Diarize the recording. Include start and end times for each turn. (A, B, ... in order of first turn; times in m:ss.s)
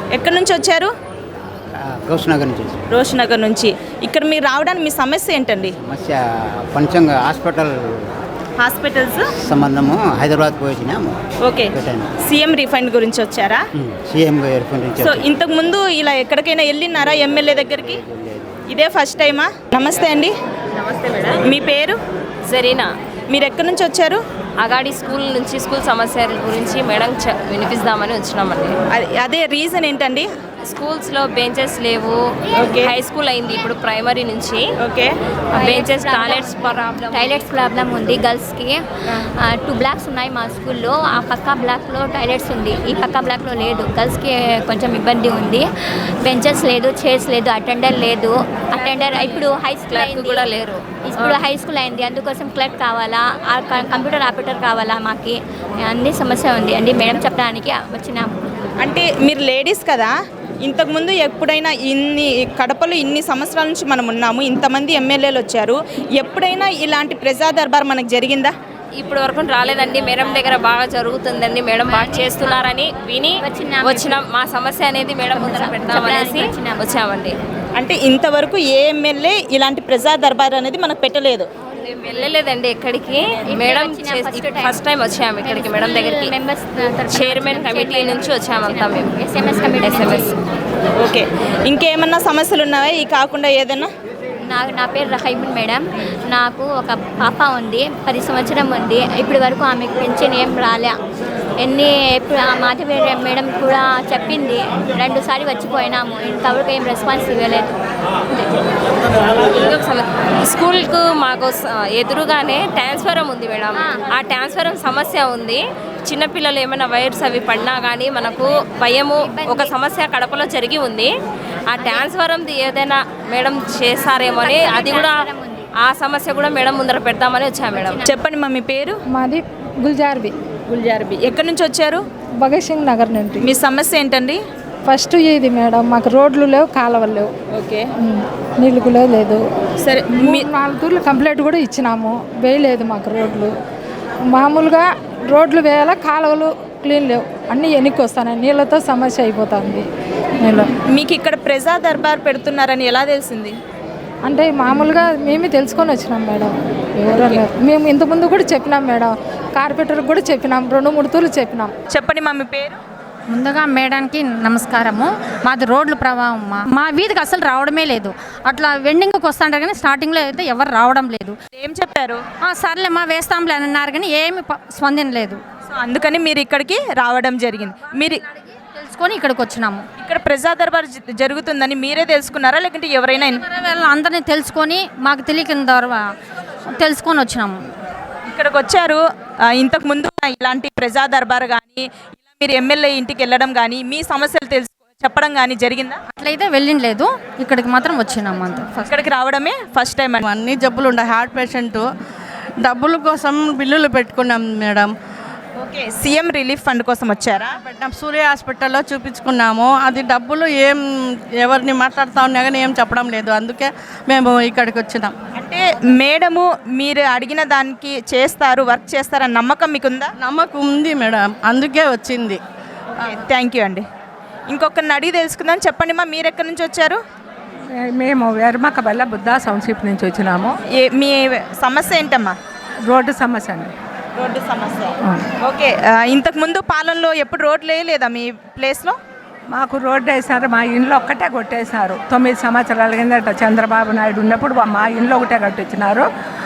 0:00.1-0:00.9 A
0:01.9-0:02.8 B
0:02.9-0:05.7 A
0:05.8-0:06.2 B
0:06.7-0:07.8 B
0:08.6-0:09.2 A
0:09.4-0:11.2 B
0:11.4-0:11.7 A
0:11.7-0:12.1 B
0:12.2-0:13.6 A
0:13.8-0:15.2 B
0:15.0-0:18.0 A
0:17.8-0:18.5 B
0:18.7-0:20.3 A
0:21.3-0:22.0 A
0:22.5-0:22.8 C
0:23.3-0:24.2 A
0:24.6-0:28.7 C
0:28.9-0:30.3 A
0:30.6-0:32.1 C
0:32.6-0:32.9 A
0:32.8-0:34.6 C
0:34.8-0:35.1 A
0:35.5-0:38.8 D
0:35.6-0:37.2 C
0:39.5-0:45.6 D
0:46.2-0:50.5 D
0:48.9-0:49.4 C
0:49.9-0:51.4 C
0:51.0-0:58.4 D
0:58.8-1:00.1 A
1:00.6-1:08.5 A
1:09.0-1:17.3 C
1:11.8-1:12.5 D
1:13.4-1:14.2 D
1:15.3-1:16.8 D
1:17.8-1:21.5 A
1:21.8-1:26.4 C
1:23.5-1:24.8 D
1:25.4-1:30.3 D
1:27.1-1:29.2 C
1:29.8-1:30.3 C
1:31.0-1:33.9 A
1:34.5-1:41.0 D
1:41.6-1:47.8 D
1:49.5-2:01.1 C
1:59.2-1:59.7 D
2:01.7-2:05.3 C
2:01.8-2:02.0 D
2:04.3-2:05.6 D
2:05.8-2:08.0 C
2:07.7-2:08.1 D
2:08.0-2:09.0 A
2:09.1-2:10.3 E
2:10.7-2:12.0 A
2:12.4-2:13.5 E
2:13.4-2:14.4 A
2:14.9-2:17.3 E
2:17.5-2:17.8 A
2:18.0-2:19.4 E
2:19.8-2:20.5 A
2:20.2-2:23.5 E
2:24.3-2:29.8 E
2:30.4-2:30.7 E
2:30.9-2:33.5 A
2:34.2-2:41.7 E
2:37.1-2:37.4 A
2:41.9-2:42.8 A
2:43.3-2:51.3 F
2:51.6-2:52.2 A
2:52.4-2:55.4 F
2:55.7-2:58.2 A
2:58.7-2:59.8 F
3:00.0-3:03.4 A
3:03.4-3:06.0 F
3:06.8-3:07.6 F
3:08.3-3:09.0 A
3:09.5-3:16.0 A
3:16.2-3:18.9 F
3:18.9-3:20.2 A
3:20.2-3:21.8 G
3:22.6-3:24.9 G
3:25.6-3:27.6 A
3:27.6-3:30.8 G
3:31.4-3:35.1 G
3:35.4-3:40.1 A
3:40.2-3:42.4 G
3:43.0-3:43.8 A
3:44.5-3:47.0 A
3:47.8-3:50.5 H
3:50.8-3:52.4 A
3:52.9-3:53.7 H
3:54.2-3:59.0 A
3:59.5-4:06.0 H